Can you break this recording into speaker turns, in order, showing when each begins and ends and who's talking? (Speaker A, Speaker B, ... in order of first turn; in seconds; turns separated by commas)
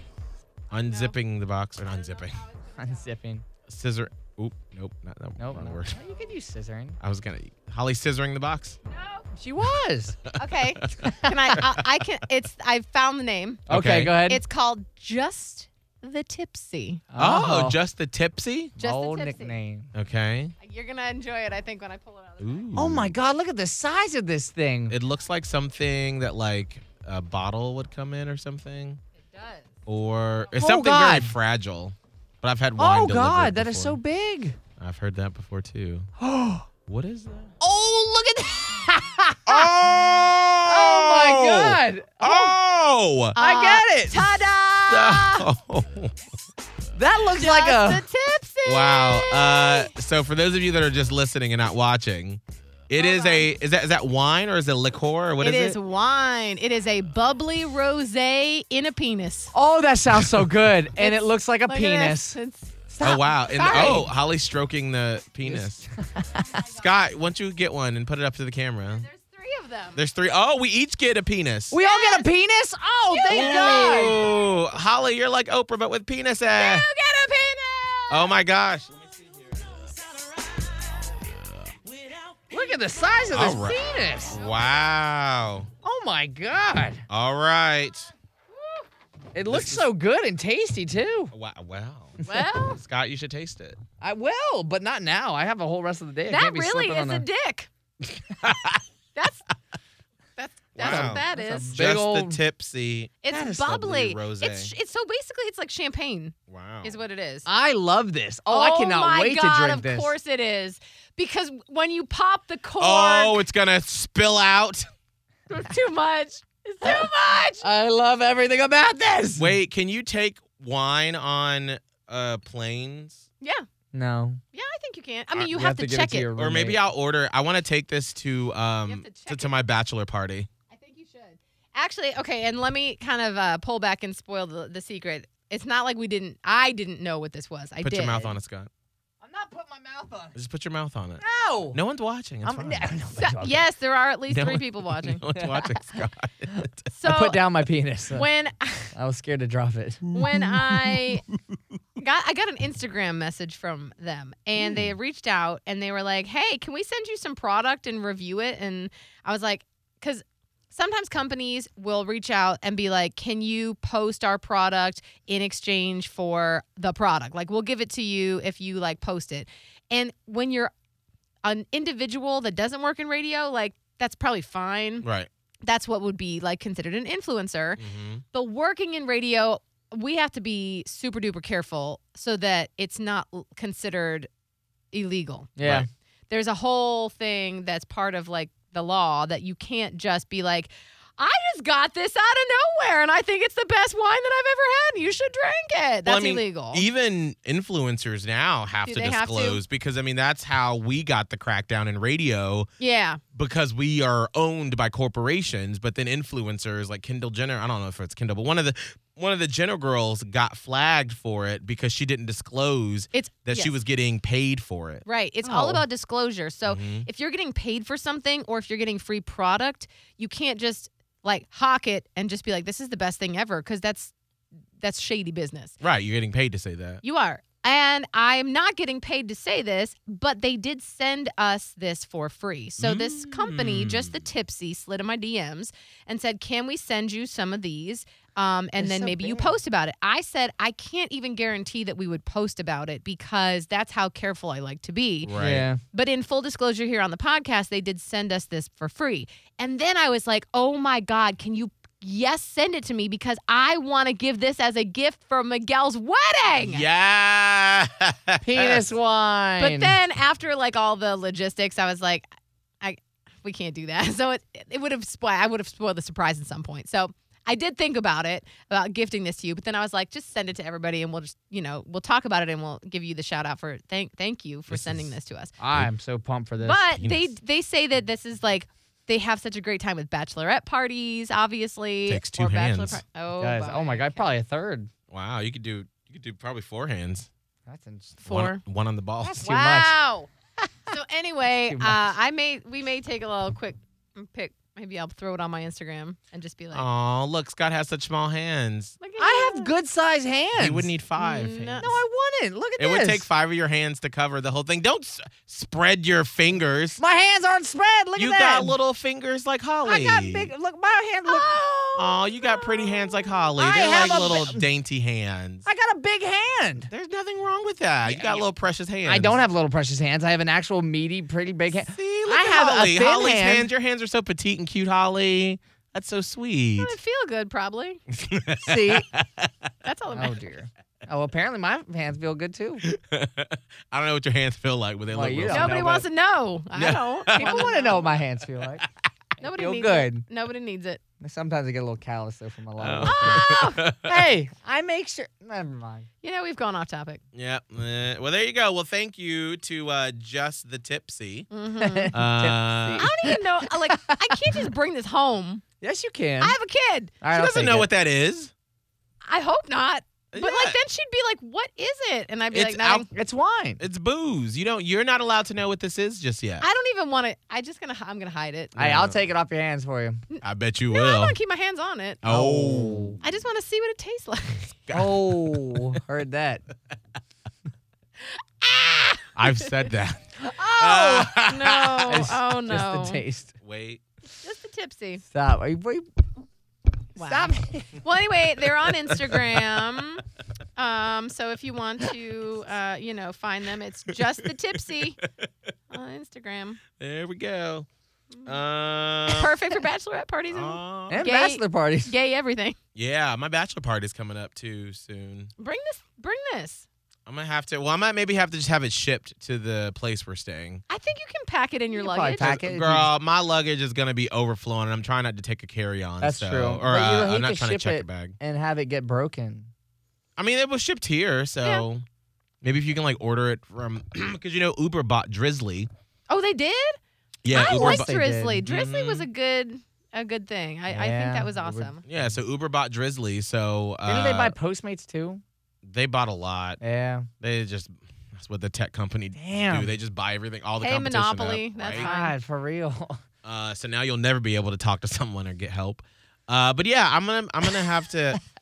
Speaker A: 0.7-2.4, Speaker B: 0.7-1.2, Speaker B: 1.8-3.1, Speaker C: 2.8-3.4, Speaker A: 3.6-6.0, Speaker C: 5.4-7.0, Speaker A: 7.0-8.8, Speaker B: 8.8-9.3, Speaker C: 9.3-10.2, Speaker A: 10.2-11.8, Speaker B: 10.3-13.6, Speaker C: 11.0-11.3, Speaker C: 13.7-14.4, Speaker A: 13.7-14.2, Speaker B: 14.2-17.0, Speaker C: 17.1-17.8, Speaker A: 17.2-18.7, Speaker C: 18.8-19.9, Speaker B: 18.8-19.6, Speaker A: 19.9-20.5, Speaker B: 20.6-22.7, Speaker A: 22.4-23.1, Speaker C: 22.7-24.9, Speaker A: 24.9-29.0, Speaker B: 29.1-29.8, Speaker A: 29.9-34.0, Speaker C: 30.6-31.4, Speaker C: 32.8-34.6, Speaker A: 34.8-36.1, Speaker C: 36.2-36.7, Speaker A: 36.9-37.5, Speaker C: 37.6-42.6, Speaker A: 39.5-43.4, Speaker B: 43.3-45.5, Speaker C: 43.4-44.4, Speaker A: 44.9-46.1, Speaker C: 46.9-48.0, Speaker B: 47.3-49.9, Speaker A: 48.6-55.8, Speaker B: 52.9-53.5, Speaker B: 55.4-59.5, Speaker C: 59.5-62.4, Speaker B: 61.0-64.1, Speaker C: 62.9-64.1, Speaker A: 63.0-65.8, Speaker C: 65.4-66.6, Speaker A: 66.6-69.0, Speaker B: 68.9-70.0, Speaker A: 70.0-71.8, Speaker C: 71.7-74.2, Speaker B: 71.8-72.3, Speaker B: 73.1-74.6, Speaker A: 73.3-76.9, Speaker B: 76.5-78.3, Speaker A: 78.1-78.9, Speaker A: 81.3-81.7, Speaker C: 82.5-84.4, Speaker A: 83.3-85.7, Speaker C: 85.8-87.0, Speaker A: 87.1-88.1, Speaker B: 88.6-88.8, Speaker C: 89.3-91.3, Speaker A: 89.4-89.9, Speaker A: 91.3-93.8, Speaker B: 92.2-92.8, Speaker C: 94.0-97.2, Speaker B: 96.3-97.7, Speaker A: 98.4-98.8, Speaker B: 99.1-99.4, Speaker B: 100.4-101.8, Speaker A: 100.8-104.7, Speaker C: 100.8-102.4, Speaker B: 103.2-107.5, Speaker A: 106.5-107.0, Speaker C: 107.5-110.1, Speaker B: 108.5-113.4, Speaker A: 112.8-114.9, Speaker B: 115.5-117.7, Speaker C: 117.6-119.5, Speaker A: 119.3-123.2, Speaker B: 123.4-123.7, Speaker C: 123.9-124.4, Speaker B: 124.5-126.3, Speaker C: 125.5-126.8, Speaker A: 126.3-130.5, Speaker B: 128.8-129.5, Speaker B: 130.7-138.3, Speaker A: 137.8-138.7, Speaker C: 139.2-140.3, Speaker A: 140.3-142.9, Speaker C: 141.2-141.8, Speaker C: 142.4-143.6, Speaker B: 143.2-145.2, Speaker A: 144.3-146.9, Speaker C: 145.3-145.7, Speaker B: 146.9-147.4, Speaker C: 147.0-148.3, Speaker B: 148.1-148.9, Speaker C: 148.9-150.2, Speaker B: 150.1-151.2, Speaker A: 150.2-150.5, Speaker B: 152.0-170.7, Speaker B: 171.4-175.1, Speaker A: 175.0-175.3, Speaker B: 175.6-177.8, Speaker A: 177.8-178.2, Speaker B: 178.3-184.3, Speaker B: 184.9-185.5, Speaker C: 185.6-185.9, Speaker A: 185.6-185.9, Speaker B: 186.3-196.8, Speaker A: 196.0-202.7, Speaker B: 198.8-199.6, Speaker B: 202.8-203.2, Speaker A: 203.3-215.0, Speaker B: 213.1-213.7, Speaker B: 215.0-224.1, Speaker C: 215.5-215.8, Speaker A: 216.7-217.1, Speaker B: 224.8-225.7, Speaker A: 225.8-227.0, Speaker B: 227.0-245.3, Speaker A: 232.8-234.2, Speaker C: 238.8-239.5, Speaker A: 245.2-245.7, Speaker C: 245.3-245.8, Speaker B: 245.9-256.8, Speaker A: 256.6-258.9, Speaker C: 258.4-260.0, Speaker B: 259.6-262.3, Speaker B: 262.8-275.5, Speaker A: 274.7-275.1, Speaker C: 275.6-276.8, Speaker B: 276.6-284.3, Speaker A: 277.0-277.3, Speaker A: 282.1-283.0, Speaker C: 283.4-284.9, Speaker A: 285.1-287.3, Speaker C: 287.6-288.2, Speaker B: 288.2-288.6, Speaker A: 288.2-289.4, Speaker C: 289.2-290.0, Speaker B: 289.4-290.3, Speaker C: 290.6-290.9, Speaker B: 290.9-296.9, Speaker C: 291.7-292.0, Speaker A: 296.7-299.0, Speaker B: 299.0-299.7, Speaker C: 299.2-300.9, Speaker A: 300.6-301.9, Speaker B: 301.2-301.9, Speaker C: 301.8-303.2, Speaker A: 302.8-307.0, Speaker C: 307.0-308.8, Speaker A: 308.1-310.5, Speaker C: 309.8-312.9, Speaker B: 311.3-311.6, Speaker A: 311.9-315.6, Speaker C: 313.6-314.6, Speaker C: 315.6-316.9, Speaker A: 316.9-319.4, Speaker C: 318.1-318.4, Speaker C: 319.0-323.7, Speaker A: 321.7-326.9, Speaker B: 326.8-328.0, Speaker A: 328.1-329.5, Speaker C: 328.6-329.1, Speaker B: 329.8-330.4, Speaker C: 330.1-332.8, Speaker A: 332.8-335.8, Speaker C: 335.1-336.1, Speaker B: 335.5-338.2, Speaker A: 336.7-337.8, Speaker C: 337.3-338.9, Speaker C: 339.4-340.2, Speaker B: 339.4-341.0, Speaker C: 341.2-346.1, Speaker A: 342.8-344.1, Speaker B: 343.1-343.8, Speaker B: 346.2-347.2, Speaker A: 347.3-351.5, Speaker B: 351.5-352.1, Speaker C: 351.8-354.6, Speaker A: 352.1-353.1, Speaker B: 353.0-355.6, Speaker C: 355.8-356.6, Speaker B: 356.4-357.2, Speaker C: 357.2-357.9, Speaker A: 357.3-358.5, Speaker B: 359.2-363.1, Speaker A: 360.3-360.8, Speaker A: 362.5-363.1, Speaker C: 363.1-363.8, Speaker A: 363.8-366.6, Speaker B: 366.6-368.7, Speaker A: 368.7-369.2, Speaker C: 368.8-370.2, Speaker B: 370.3-372.2, Speaker A: 370.4-371.4, Speaker A: 372.2-373.2, Speaker C: 372.2-373.2, Speaker B: 373.2-374.8, Speaker A: 374.9-375.9, Speaker C: 374.9-376.6, Speaker B: 378.6-379.6, Speaker A: 379.3-382.2, Speaker C: 380.4-381.4, Speaker B: 381.4-383.2, Speaker C: 382.1-383.5, Speaker A: 383.6-384.0, Speaker B: 384.4-385.2, Speaker C: 385.3-386.1, Speaker C: 387.1-388.0, Speaker B: 387.1-390.2, Speaker B: 390.8-395.2, Speaker B: 395.9-396.8, Speaker A: 397.0-397.9, Speaker A: 398.4-399.5, Speaker B: 399.3-402.8, Speaker A: 400.5-401.2, Speaker C: 401.1-402.1, Speaker A: 402.9-405.5, Speaker B: 405.6-406.9, Speaker A: 407.3-410.8, Speaker B: 410.9-412.5, Speaker C: 411.9-413.1, Speaker A: 412.4-418.4, Speaker C: 416.2-419.7, Speaker A: 420.4-422.0, Speaker A: 422.6-425.9, Speaker B: 426.3-427.0, Speaker A: 427.4-428.1, Speaker B: 427.5-432.0, Speaker C: 427.5-428.6, Speaker A: 428.6-429.3, Speaker C: 430.9-432.4, Speaker A: 432.1-434.5, Speaker C: 434.1-435.4, Speaker A: 435.8-436.8, Speaker C: 436.8-437.3, Speaker A: 437.4-442.1, Speaker C: 439.4-439.9, Speaker B: 440.8-442.3, Speaker C: 441.9-443.2, Speaker A: 443.4-448.4